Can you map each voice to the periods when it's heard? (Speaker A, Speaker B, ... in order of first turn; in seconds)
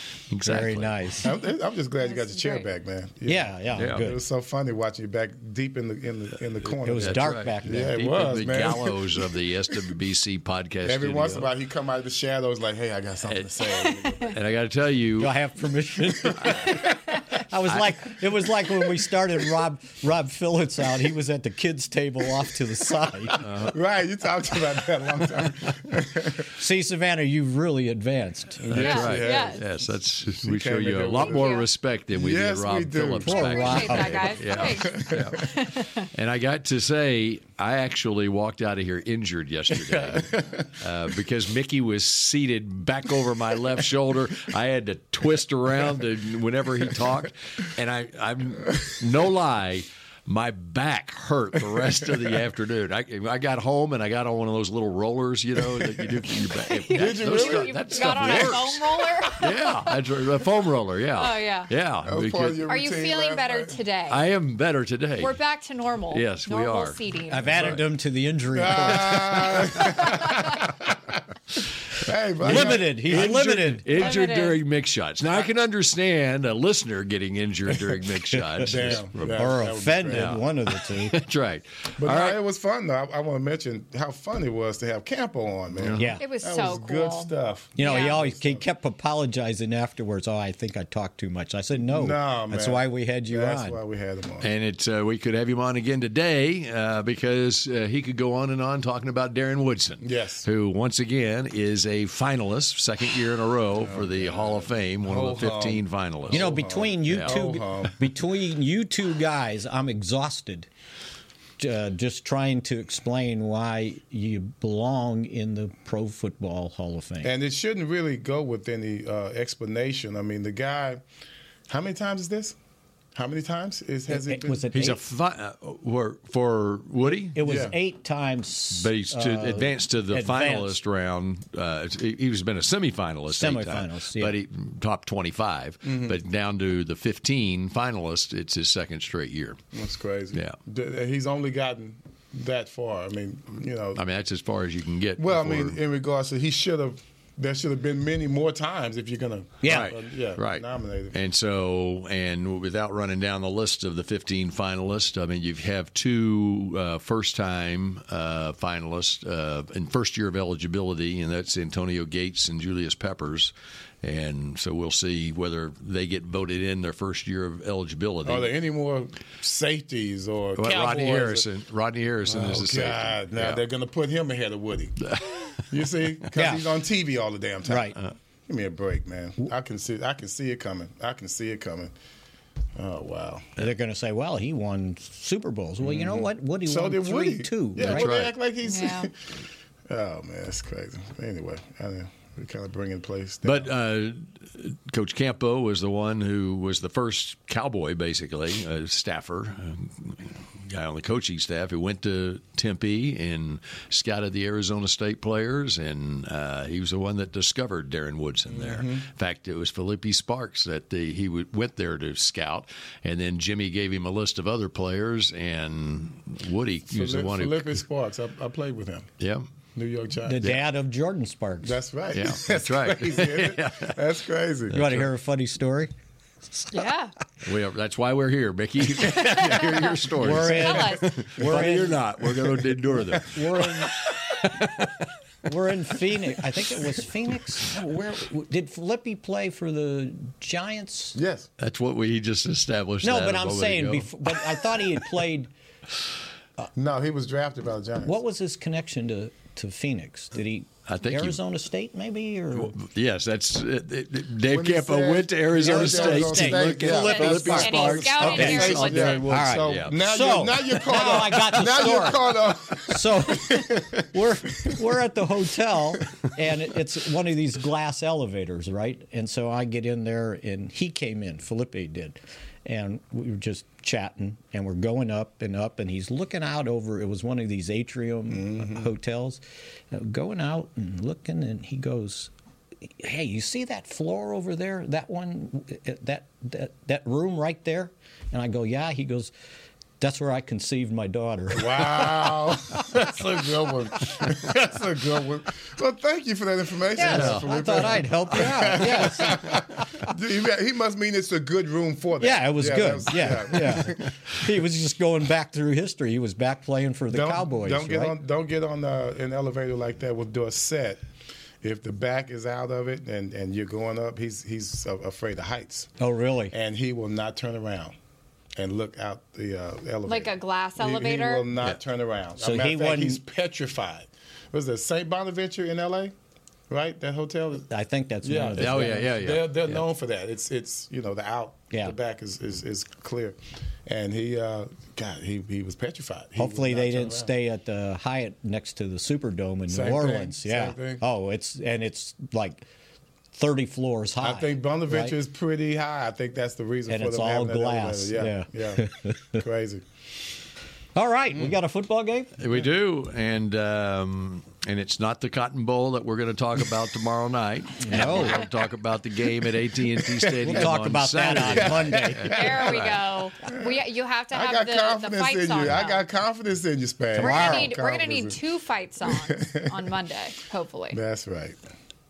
Speaker A: 0.3-1.0, 3.8-4.1, 6.6-11.5, 14.2-15.3, 17.7-17.9, 23.4-23.8, 28.7-35.4, 36.1-62.7, 64.1-65.4, 66.1-67.0, 72.4-82.4, 85.8-86.1, 94.4-107.4, 124.7-127.4, 128.7-139.6, 143.9-145.8, 149.6-163.5, 164.0-168.5, 170.6-173.6, 175.0-175.7, 187.8-188.3, 193.4-217.8, 219.2-219.4, 222.1-224.0, 224.7-225.1, 227.4-233.7, 241.6-244.8, 250.9-251.4, 252.5-259.9, 297.0-298.1, 328.6-329.8, 352.4-363.1
Speaker B: 0.4-1.3, 3.2-4.2, 6.8-7.9, 15.2-23.4, 26.6-29.1, 33.2-34.3, 67.3-69.7, 72.4-73.9, 78.4-81.2, 86.0-86.2, 87.8-93.8, 106.3-110.7, 111.6-117.3, 124.1-125.0, 127.3-130.8, 133.3-134.3, 149.6-149.9, 176.3-176.6, 177.7-178.0, 183.6-188.1, 220.3-221.8, 224.7-225.9, 230.2-232.0, 233.1-234.0, 235.4-241.2, 243.0-245.5, 248.0-252.8, 255.6-282.3, 282.8-289.3, 290.0-292.1, 296.9-300.0, 302.2-308.2, 316.0-316.5, 322.4-323.2, 327.7-329.1, 336.4-342.6, 343.3-345.2, 346.9-349.4, 350.9-352.3, 357.8-358.4, 360.4-362.2, 367.1-367.7
Speaker C: 1.2-9.3, 10.8-14.4, 16.2-16.8, 23.0-26.5, 28.6-29.7, 30.2-33.4, 34.6-35.4, 39.8-40.7, 55.6-56.0, 56.9-58.7, 62.0-63.8, 68.5-71.2, 71.9-74.1, 78.6-80.4, 82.0-88.7, 91.8-94.5, 100.0-100.5, 103.8-107.9, 117.2-121.0, 121.7-122.5, 123.1-124.7, 127.4-127.7, 135.8-136.2, 139.7-144.0, 145.2-151.2, 168.2-171.5, 172.2-175.1, 175.7-177.9, 178.5-181.9, 182.8-183.5, 185.8-189.3, 189.9-193.7, 208.5-209.1, 216.9-219.1, 219.8-220.4, 221.6-224.8, 231.4-231.8, 232.3-233.2, 241.1-241.5, 246.7-248.2, 254.4-264.8, 278.3-278.9, 291.5-304.1, 307.1-311.0, 311.6-315.9, 316.5-317.9, 318.6-326.1, 326.7-327.7, 328.2-337.3, 339.7-341.0, 344.2-349.8, 360.0-360.7, 361.4-362.9, 363.4-368.4, 369.0-369.9, 370.9-371.6
Speaker D: 2.0-2.6, 28.8-29.6, 31.2-31.7, 33.3-36.1, 56.6-59.9, 61.1-61.7, 62.7-64.2, 65.2-67.7, 69.8-70.4, 73.9-74.6, 86.2-88.2, 188.6-189.1, 226.7-227.1, 228.9-231.0, 256.9-259.3, 320.1-321.5, 362.2-366.0, 367.2-371.0